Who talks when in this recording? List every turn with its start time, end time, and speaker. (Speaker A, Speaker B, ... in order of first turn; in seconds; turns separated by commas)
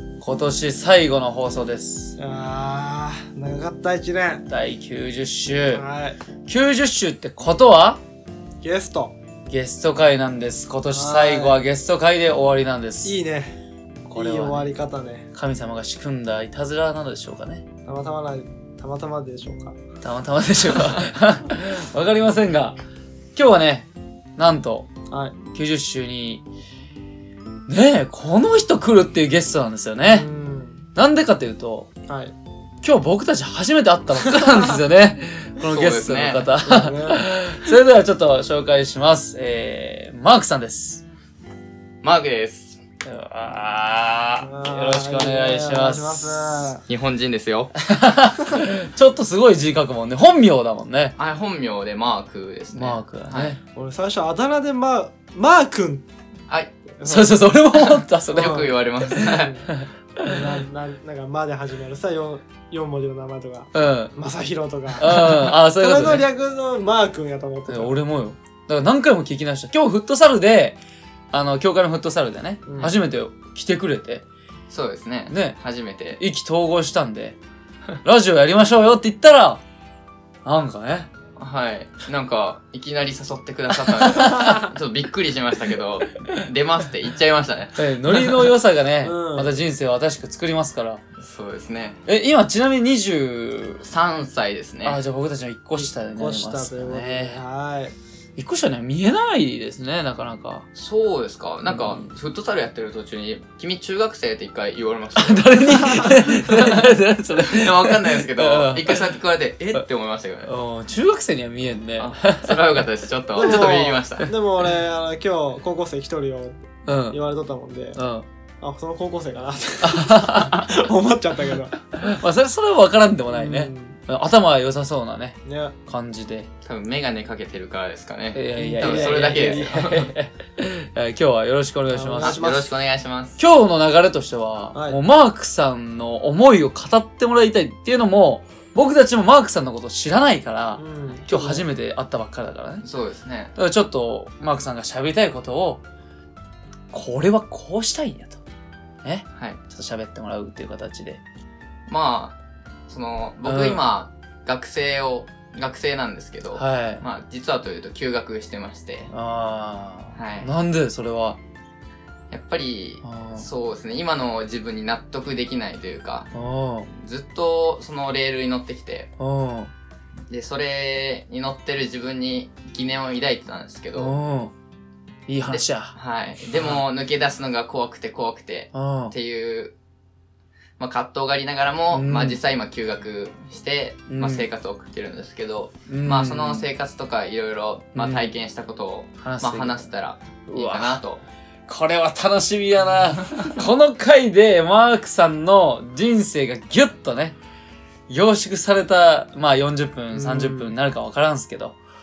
Speaker A: 0.2-2.2, Speaker B: 2.2-4.5, Speaker A: 4.5-5.8, Speaker B: 5.7-6.2, Speaker A: 6.5-8.0, Speaker B: 8.6-9.1, Speaker A: 9.5-13.2, Speaker B: 10.9-11.6, Speaker B: 13.0-13.6, Speaker A: 14.1-14.7, Speaker B: 14.2-15.3, Speaker A: 15.3-17.6, Speaker B: 17.9-19.8, Speaker A: 20.0-22.8, Speaker A: 23.4-24.9, Speaker B: 25.1-25.4, Speaker A: 25.5-26.4, Speaker A: 27.7-30.3, Speaker B: 30.1-30.9, Speaker A: 31.0-31.9, Speaker B: 32.1-32.3, Speaker A: 32.8-41.0, Speaker B: 34.3-34.7, Speaker C: 35.6-36.5, Speaker B: 36.6-37.2, Speaker C: 42.0-42.8, Speaker A: 43.0-46.6, Speaker B: 44.4-46.8, Speaker C: 46.9-47.7, Speaker A: 47.8-51.1, Speaker C: 51.2-53.6, Speaker A: 52.8-53.6, Speaker B: 53.8-56.0, Speaker B: 57.0-57.5, Speaker A: 57.0-60.6, Speaker C: 58.3-59.5, Speaker B: 58.3-59.7, Speaker B: 60.2-68.0, Speaker A: 63.7-64.1, Speaker A: 65.0-66.3, Speaker A: 67.7-70.8, Speaker A: 71.3-74.3, Speaker B: 72.7-72.9, Speaker C: 74.7-76.2, Speaker A: 75.3-75.6, Speaker A: 76.2-77.4, Speaker A: 78.0-79.6, Speaker A: 80.5-81.1, Speaker C: 81.4-88.4, Speaker A: 83.9-84.7, Speaker A: 87.8-91.0, Speaker B: 89.0-89.5, Speaker C: 91.2-92.0, Speaker A: 92.1-93.9, Speaker C: 93.8-95.0, Speaker A: 94.8-97.4, Speaker B: 95.8-97.9, Speaker A: 98.4-100.7, Speaker C: 100.7-110.5, Speaker A: 101.7-102.1, Speaker A: 105.2-109.1, Speaker A: 110.5-112.8, Speaker C: 112.0-114.3, Speaker B: 113.4-118.0, Speaker A: 116.9-117.2, Speaker A: 118.0-118.3, Speaker B: 118.6-121.9, Speaker A: 119.8-120.7, Speaker A: 121.9-126.5, Speaker B: 123.3-124.0, Speaker B: 125.5-125.8, Speaker C: 126.7-130.1, Speaker A: 128.3-132.4, Speaker B: 128.6-129.9, Speaker B: 131.9-132.7, Speaker C: 132.2-133.4, Speaker A: 133.4-142.8, Speaker B: 134.7-135.0, Speaker B: 140.8-141.6, Speaker C: 142.8-143.5, Speaker A: 143.6-145.8, Speaker A: 146.9-148.4, Speaker A: 149.0-151.2, Speaker C: 151.9-152.4, Speaker C: 152.9-159.1, Speaker A: 153.4-153.8, Speaker A: 156.6-157.0, Speaker A: 159.1-161.4, Speaker C: 160.2-160.5, Speaker C: 162.3-166.3, Speaker A: 163.0-163.5, Speaker A: 166.3-166.9, Speaker C: 166.9-169.1, Speaker A: 169.2-169.7, Speaker C: 170.3-174.1, Speaker A: 173.9-174.5, Speaker A: 175.3-175.9, Speaker C: 175.5-179.7, Speaker A: 176.5-176.8, Speaker A: 178.7-179.1, Speaker C: 180.8-191.2, Speaker A: 181.9-182.4, Speaker A: 184.1-184.5, Speaker A: 185.9-186.7, Speaker A: 187.9-188.3, Speaker A: 189.2-189.9, Speaker A: 190.5-191.0, Speaker A: 191.7-197.4, Speaker A: 198.1-201.8, Speaker B: 200.1-200.7